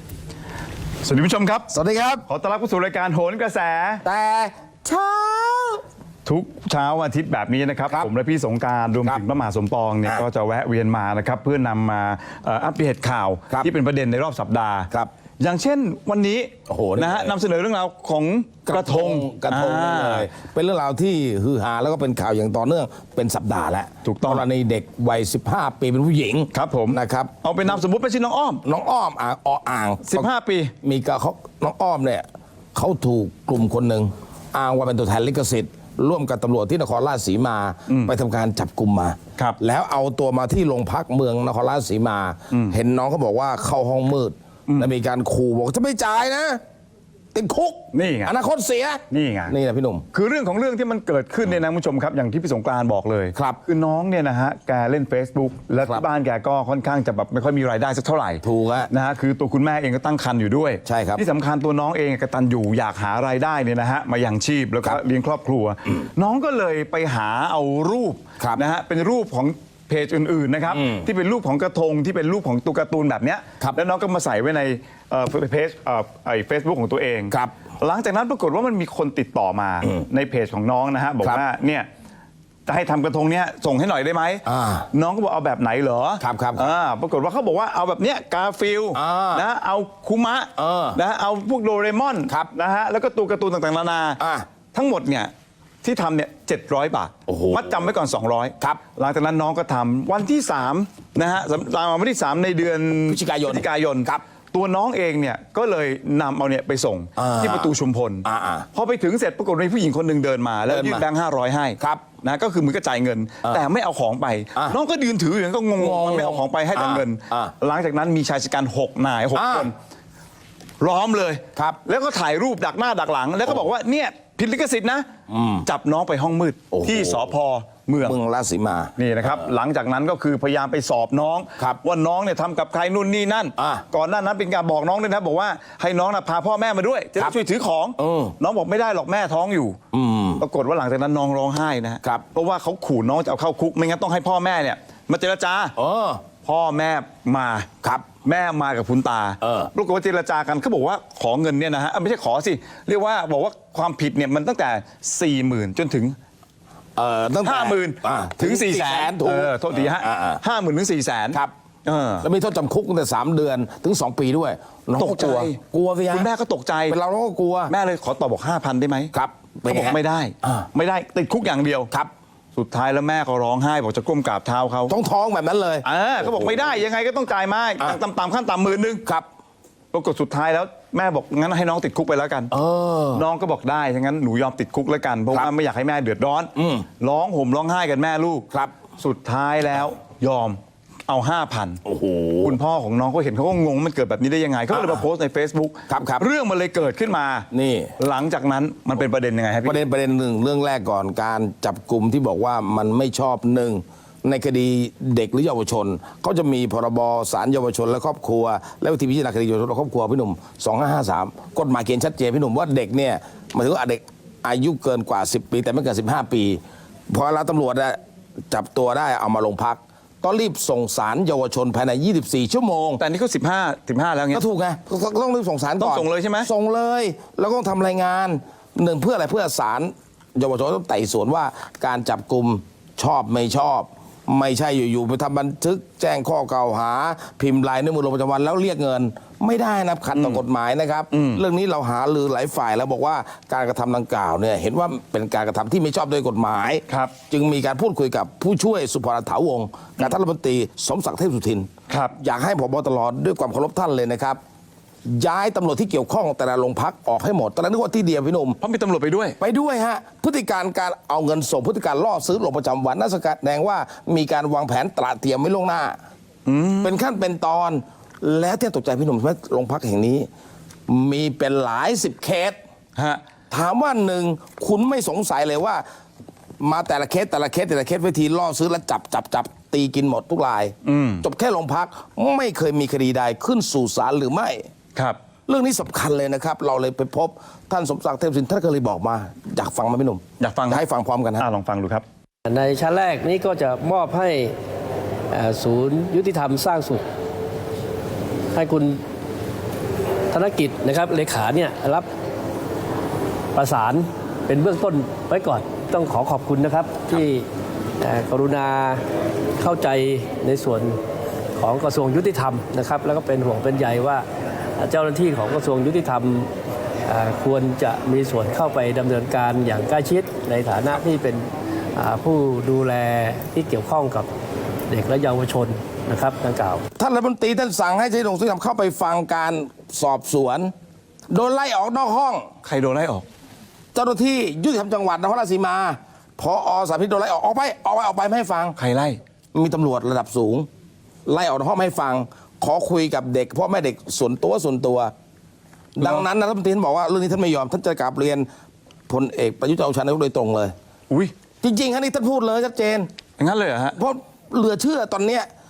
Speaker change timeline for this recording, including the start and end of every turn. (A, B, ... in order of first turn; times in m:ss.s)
0:01.0-0:01.7 A
0:01.7-0:02.2 B
0:02.3-0:04.0 A
0:04.0-0:05.8 B
0:06.2-0:20.3 A
0:16.7-0:17.3 B
0:18.7-0:27.3 B
0:24.0-0:24.4 A
0:26.5-0:28.6 A
0:28.6-0:30.3 B
0:30.0-0:30.7 A
0:30.8-0:46.6 B
0:37.9-0:38.1 A
0:47.3-0:50.0 B
0:47.9-0:48.3 A
0:49.1-0:49.5 A
0:50.1-1:21.9 A
0:53.3-0:53.6 B
0:58.4-0:58.9 B
1:00.8-1:01.2 B
1:10.7-1:11.1 B
1:22.7-1:34.2 A
1:24.4-1:24.9 B
1:26.2-1:26.7 B
1:28.9-1:29.4 B
1:30.6-1:31.0 B
1:34.2-1:34.4 B
1:34.7-1:35.3 A
1:35.8-1:59.7 A
1:37.3-1:37.9 B
1:43.1-1:44.2 B
1:47.2-1:47.7 B
1:48.2-1:48.7 B
1:50.7-1:51.0 B
1:55.8-1:57.5 B
1:59.3-1:59.7 B
2:00.8-2:05.1 A
2:05.3-2:05.7 B
2:05.6-2:08.2 A
2:06.7-2:07.3 B
2:08.0-2:09.5 B
2:09.0-2:19.8 A
2:13.6-2:13.8 B
2:18.0-2:18.3 B
2:19.9-2:20.4 B
2:20.4-2:25.7 A
2:25.8-2:26.2 B
2:26.4-2:27.7 A
2:28.2-2:36.2 A
2:29.4-2:29.7 B
2:37.0-2:40.4 B
2:37.4-2:42.3 A
2:42.2-2:46.3 B
2:45.0-2:45.6 A
2:46.1-2:47.0 A
2:46.9-2:47.7 B
2:47.7-2:49.1 A
2:49.1-2:50.7 B
2:49.6-2:51.9 A
2:52.5-2:54.9 A
2:54.9-2:56.7 B
2:55.8-2:59.0 A
2:59.9-3:02.5 A
3:02.5-3:03.2 B
3:03.1-3:08.4 A
3:06.5-3:06.8 B
3:09.0-3:11.8 A
3:11.8-3:12.6 B
3:12.4-3:17.5 A
3:14.7-3:15.0 B
3:15.9-3:16.3 B
3:17.5-3:17.9 B
3:18.0-3:19.8 A
3:19.6-3:43.0 B
3:43.0-3:44.4 A
3:44.3-4:14.4 B
3:45.8-3:46.5 A
4:00.1-4:00.4 A
4:01.1-4:01.4 A
4:06.9-4:07.1 A
4:15.0-4:18.6 B
4:18.6-4:19.4 A
4:19.4-4:26.0 B
4:26.4-4:27.0 A
4:26.8-4:30.3 B
4:30.9-4:32.6 B
4:33.0-4:33.2 A
4:33.5-4:35.8 B
4:36.6-4:44.7 B
4:40.8-4:41.2 A
4:45.5-4:51.4 B
4:50.4-4:50.8 A
4:51.4-4:52.0 A
4:52.4-4:54.5 C
4:55.3-4:57.0 C
4:58.5-4:59.0 C
5:00.3-5:02.1 C
5:03.5-5:07.5 C
5:08.0-5:09.0 C
5:09.6-5:11.0 C
5:11.6-5:14.2 C
5:14.8-5:16.5 C
5:17.1-5:24.3 C
5:24.9-5:26.8 C
5:27.0-5:30.7 B
5:31.3-5:32.5 B
5:32.6-5:33.2 A
5:33.9-5:38.8 B
5:38.8-5:39.2 A
5:39.5-5:40.7 B
5:41.2-5:45.1 B
5:46.0-5:48.5 B
5:46.0-5:46.2 A
5:49.1-5:50.7 B
5:51.6-5:53.1 B
5:53.4-5:54.0 A
5:53.9-5:55.5 B